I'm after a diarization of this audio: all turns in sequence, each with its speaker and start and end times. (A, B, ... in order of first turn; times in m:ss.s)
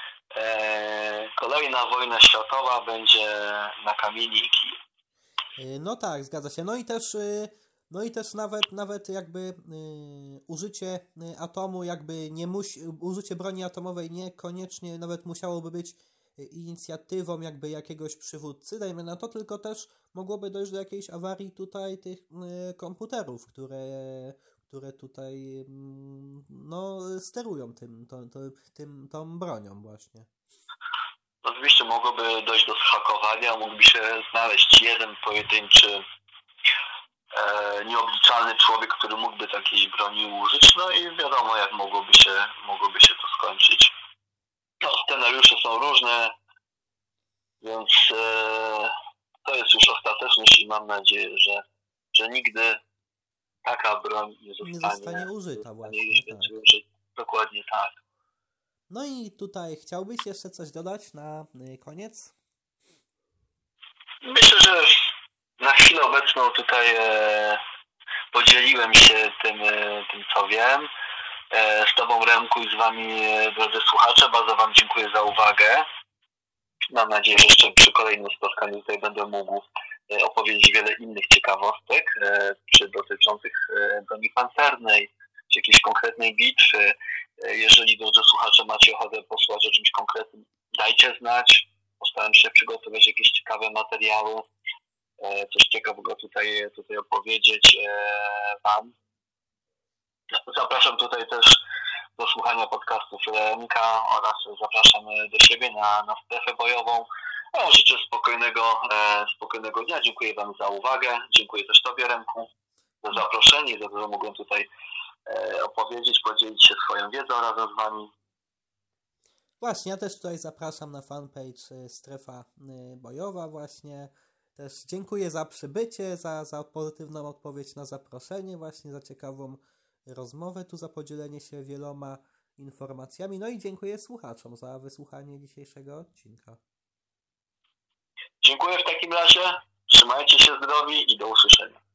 0:00.3-0:04.8 A
0:05.6-0:30.3 B
0:31.4-0:36.0 A
0:37.3-0:43.9 A
0:44.8-0:46.3 A
0:47.6-0:48.9 A
0:49.4-0:51.6 A
0:52.1-0:52.8 A
0:53.6-0:58.0 A
0:54.6-0:56.5 B
0:58.9-1:02.3 B
1:04.2-1:07.6 A
1:08.3-1:10.9 A
1:11.5-1:15.8 A
1:16.9-1:34.4 A
1:35.2-1:38.9 A
1:40.5-1:41.6 A
1:42.2-1:52.5 A
1:53.0-1:54.7 A
1:55.3-1:58.1 A
1:59.6-2:16.6 B
2:18.4-2:21.8 A